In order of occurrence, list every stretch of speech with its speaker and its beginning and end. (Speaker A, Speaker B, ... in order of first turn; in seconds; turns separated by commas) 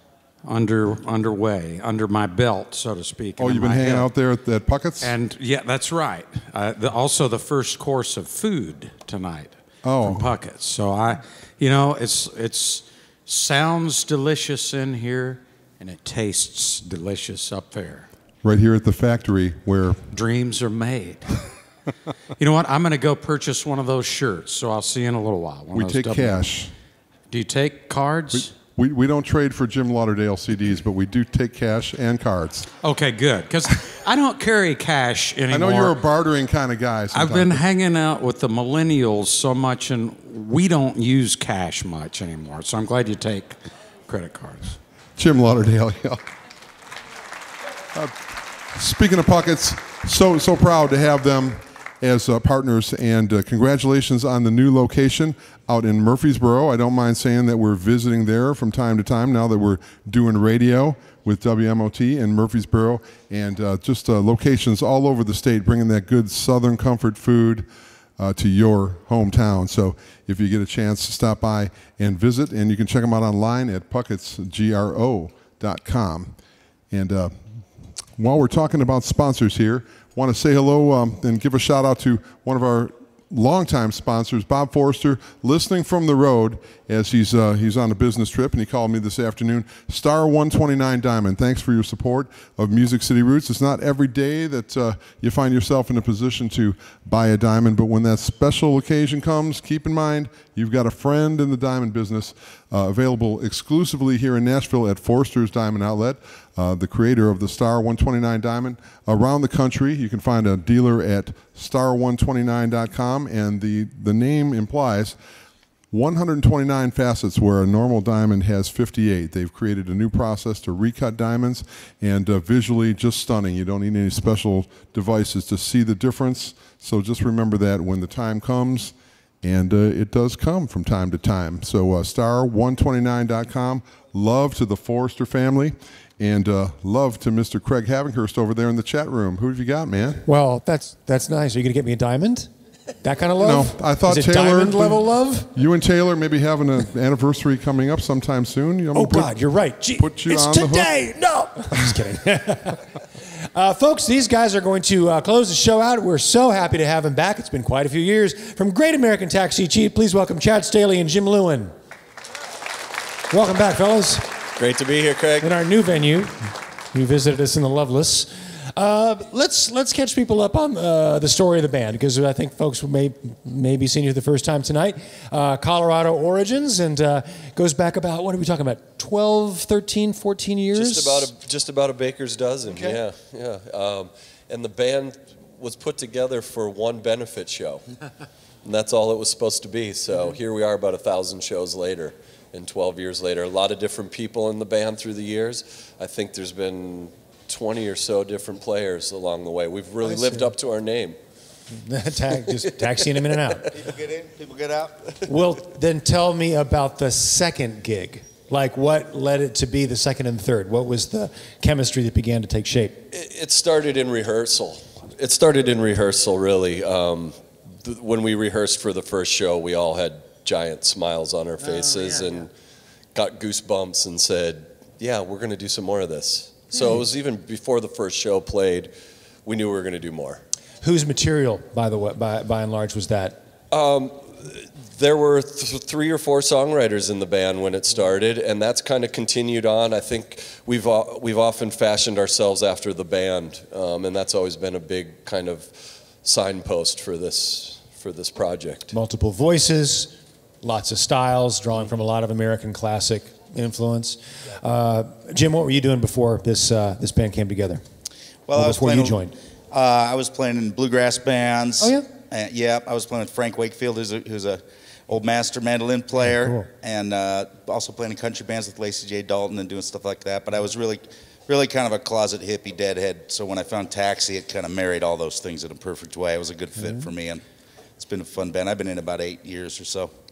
Speaker A: 0.4-4.1, Speaker B: 3.4-5.1, Speaker A: 5.0-18.1, Speaker B: 9.8-10.3, Speaker B: 18.4-20.0, Speaker A: 20.1-21.3, Speaker A: 22.4-26.4, Speaker B: 25.7-26.7, Speaker A: 27.3-28.5, Speaker B: 28.3-32.7, Speaker A: 32.8-36.0, Speaker B: 35.5-37.6, Speaker A: 37.1-44.8, Speaker B: 45.2-46.2, Speaker B: 48.7-67.7, Speaker B: 68.2-76.3, Speaker B: 76.9-77.3, Speaker B: 78.2-115.2, Speaker B: 115.9-140.2, Speaker C: 140.2-142.5, Speaker C: 143.0-145.5, Speaker B: 143.4-149.3, Speaker C: 148.9-152.8, Speaker B: 150.0-150.9, Speaker C: 153.4-161.7, Speaker C: 163.3-164.2, Speaker D: 164.6-165.5, Speaker C: 165.4-181.3, Speaker D: 180.7-187.8, Speaker D: 188.6-201.2, Speaker C: 200.0-200.5, Speaker C: 201.7-203.7, Speaker E: 203.8-205.3, Speaker C: 205.2-213.1, Speaker D: 213.1-222.5, Speaker D: 223.1-228.9, Speaker D: 229.4-230.4, Speaker C: 230.8-233.4, Speaker D: 233.7-245.7, Speaker D: 246.2-248.9, Speaker C: 248.9-257.8, Speaker E: 258.5-277.4, Speaker C: 258.5-259.4, Speaker C: 261.8-262.1, Speaker C: 266.2-266.7, Speaker C: 276.8-277.0, Speaker E: 278.0-280.1